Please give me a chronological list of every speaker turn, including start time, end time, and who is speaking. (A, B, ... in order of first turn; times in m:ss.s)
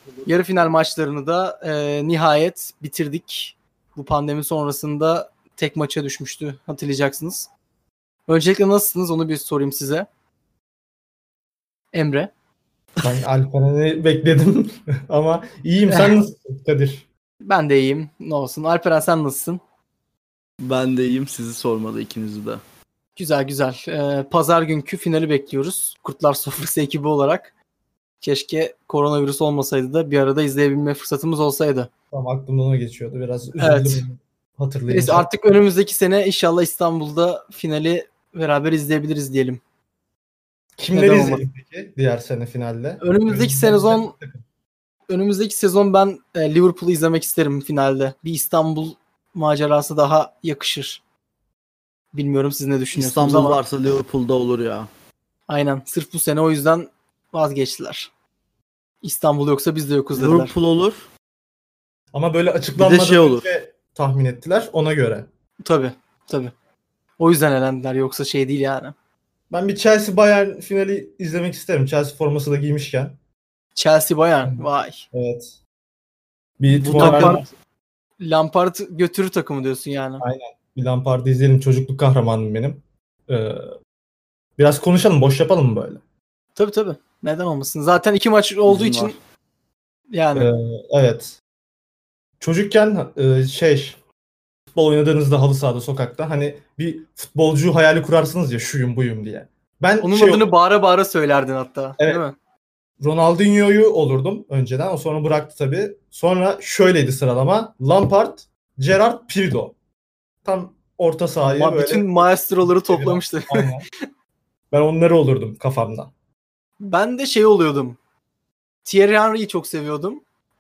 0:00.3-0:07.5 A
0:08.3-0:10.1 A
0:11.9-0:12.3 A
0:13.0-0:17.1 B
0:15.9-0:16.2 A
0:17.4-0:19.6 A
0:20.6-0:22.6 C
0:23.2-0:27.5 A
0:28.2-0:31.9 A
0:32.1-0:35.3 B
0:33.6-0:34.0 A
0:34.9-0:39.6 A
0:40.8-0:44.4 B
0:40.9-0:41.4 A
0:43.0-0:44.1 A
0:45.1-0:51.0 A
0:52.1-0:53.6 A
0:52.9-0:54.9 C
0:55.5-0:58.1 A
0:59.0-1:00.5 A
1:00.2-1:01.0 C
1:02.1-1:05.3 B
1:02.8-1:03.5 C
1:05.6-1:06.5 A
1:07.2-1:08.9 A
1:09.5-1:13.2 B
1:13.8-1:15.0 A
1:14.5-1:15.6 B
1:16.6-1:17.5 B
1:16.7-1:17.5 C
1:16.9-1:17.4 A
1:18.2-1:20.2 A
1:20.2-1:23.7 B
1:24.6-1:26.0 B
1:26.6-1:29.2 A
1:28.7-1:29.2 C
1:30.1-1:30.5 A
1:30.4-1:31.4 B
1:32.4-1:34.0 B
1:34.7-1:40.5 B
1:40.0-1:42.4 A
1:43.0-1:49.8 B
1:50.4-1:53.8 B
1:51.4-1:53.7 A
1:54.7-1:56.1 B
1:56.8-1:58.0 A
1:58.8-2:00.2 A